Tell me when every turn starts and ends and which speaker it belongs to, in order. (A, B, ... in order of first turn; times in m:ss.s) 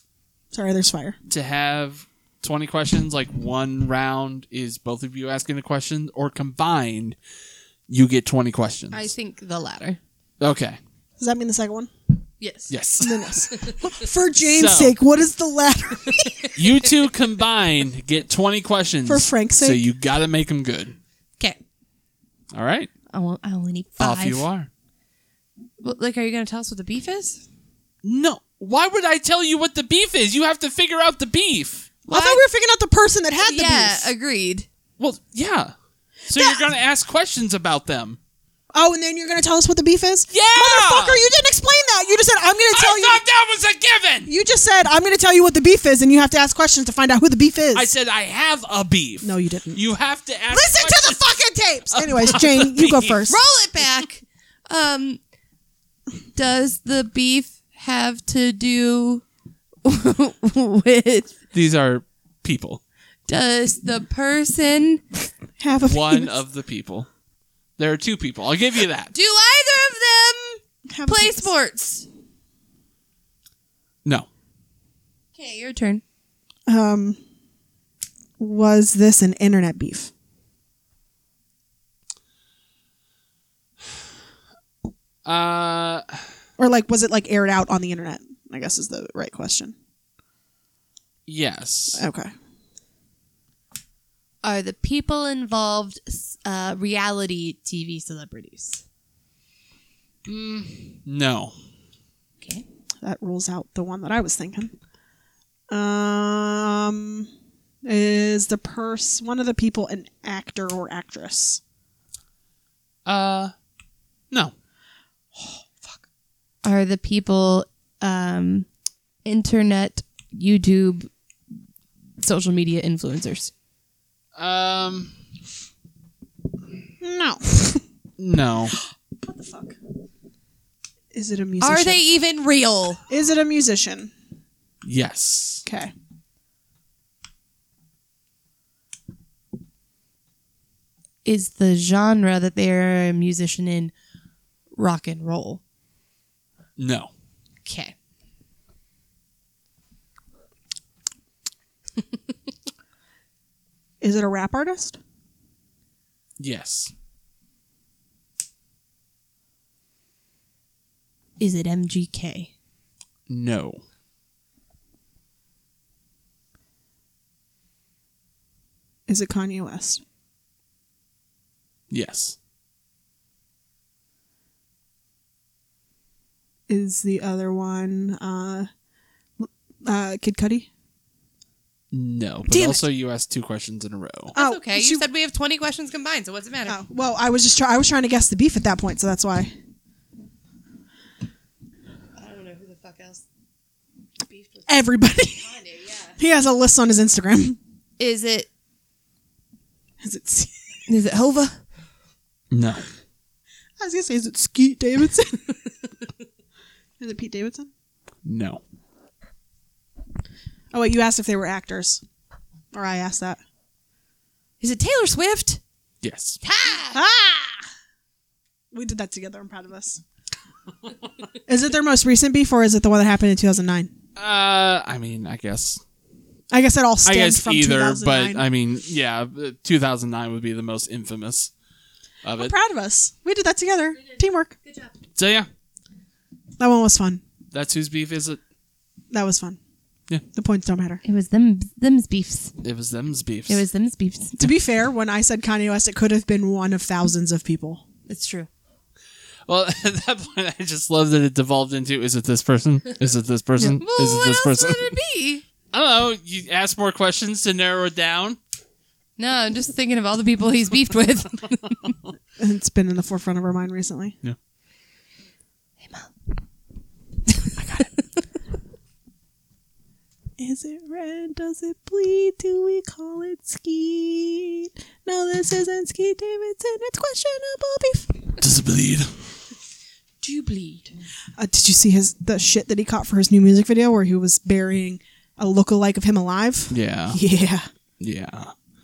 0:00.5-0:01.2 A
0:01.3-0:07.2 B
0:07.9-0:09.1 B
0:08.9-0:10.0 C
0:10.4-0:10.8 B
0:11.2-0:11.9 A
0:12.4-0:12.8 C
0:12.7-0:13.3 B
0:13.0-0:16.5 A
0:13.5-0:13.8 C
0:14.4-0:15.0 B
0:16.1-0:16.6 C
0:16.6-0:21.0 B
0:19.0-0:19.8 A
0:22.5-0:22.9 B
0:23.1-0:24.4 C
0:24.0-0:24.7 B
0:25.8-0:27.4 C
0:28.0-0:31.9 B
0:32.1-0:32.4 C
0:32.1-0:34.1 A
0:33.4-0:34.7 C
0:35.0-0:35.7 B
0:36.3-0:38.2 B
0:36.4-0:36.6 A
0:38.7-0:43.2 A
0:40.3-0:41.2 B
0:42.7-0:44.3 B
0:44.3-0:47.9 A
0:47.7-0:51.2 B
0:49.2-0:49.8 A
0:50.5-0:53.4 A
0:51.9-0:53.2 B
0:53.3-0:55.2 C
0:56.4-0:59.2 C
0:59.8-1:01.3 C
1:01.5-1:02.8 B
1:03.3-1:05.0 C
1:05.6-1:06.4 A
1:05.8-1:07.1 B
1:07.8-1:09.1 B
1:09.1-1:12.1 C
1:10.9-1:11.5 A
1:15.4-1:16.0 C
1:16.7-1:17.2 A
1:18.4-1:20.1 A
1:25.2-1:26.2 B
1:26.6-1:29.8 A
1:31.3-1:32.0 B
1:31.9-1:32.3 A
1:34.4-1:38.8 C
1:40.3-1:41.6 B
1:43.0-1:44.7 A
1:45.7-1:47.3 A
1:47.8-1:51.6 A
1:53.1-1:53.5 B
1:56.6-1:58.7 C
1:59.2-2:01.1 C
2:02.2-2:03.5 C
2:04.4-2:05.2 B
2:07.0-2:07.8 A
2:08.2-2:08.8 B
2:09.2-2:09.8 A
2:11.1-2:12.0 A
2:11.6-2:13.0 C
2:13.1-2:14.1 A
2:14.8-2:15.6 B
2:15.6-2:15.9 A
2:21.2-2:23.9 C
2:24.8-2:25.6 C
2:26.8-2:27.1 B
2:27.6-2:28.0 C
2:34.0-2:35.0 A
2:36.4-2:36.9 B
2:41.4-2:42.5 C
2:43.3-2:43.8 B
2:49.1-2:50.0 A
2:51.9-2:52.4 B
2:56.7-2:58.7 A
2:59.4-3:00.7 A
3:01.9-3:04.4 B
3:02.5-3:02.8 A
3:04.3-3:05.0 A
3:04.4-3:06.8 C
3:06.7-3:09.5 A
3:12.2-3:13.2 C
3:14.3-3:16.2 C
3:14.7-3:15.5 A
3:16.2-3:17.6 A
3:18.0-3:18.5 C
3:20.0-3:20.5 A
3:20.9-3:21.6 C
3:22.5-3:22.9 B
3:23.8-3:25.6 A
3:27.0-3:27.7 A
3:28.2-3:28.6 B
3:30.7-3:32.0 A
3:32.7-3:33.4 A
3:34.6-3:35.6 C
3:36.0-3:36.4 B
3:36.4-3:37.0 C
3:36.9-3:37.6 A
3:38.7-3:40.0 A
3:41.5-3:43.9 A
3:44.2-3:45.8 B
3:46.5-3:48.4 A
3:47.0-3:51.5 B
3:52.2-3:52.5 B
3:52.4-3:54.6 A
3:54.6-3:54.9 C
3:55.2-3:55.5 B
3:56.6-3:57.2 A
3:57.5-3:58.4 B
3:59.1-3:59.6 A
4:00.3-4:01.0 A
4:01.0-4:02.6 C
4:02.6-4:03.6 B
4:03.5-4:04.6 C
4:04.4-4:07.8 A
4:08.1-4:08.5 C
4:09.5-4:14.9 B
4:13.8-4:15.4 C
4:15.7-4:18.4 B
4:19.2-4:22.0 C
4:22.4-4:24.2 A
4:25.8-4:26.1 C
4:27.3-4:27.8 C
4:27.6-4:27.9 A
4:30.4-4:38.3 A
4:38.4-4:39.1 B
4:40.2-4:40.9 C
4:41.4-4:47.6 A
4:46.7-4:47.2 B
4:48.0-4:48.5 B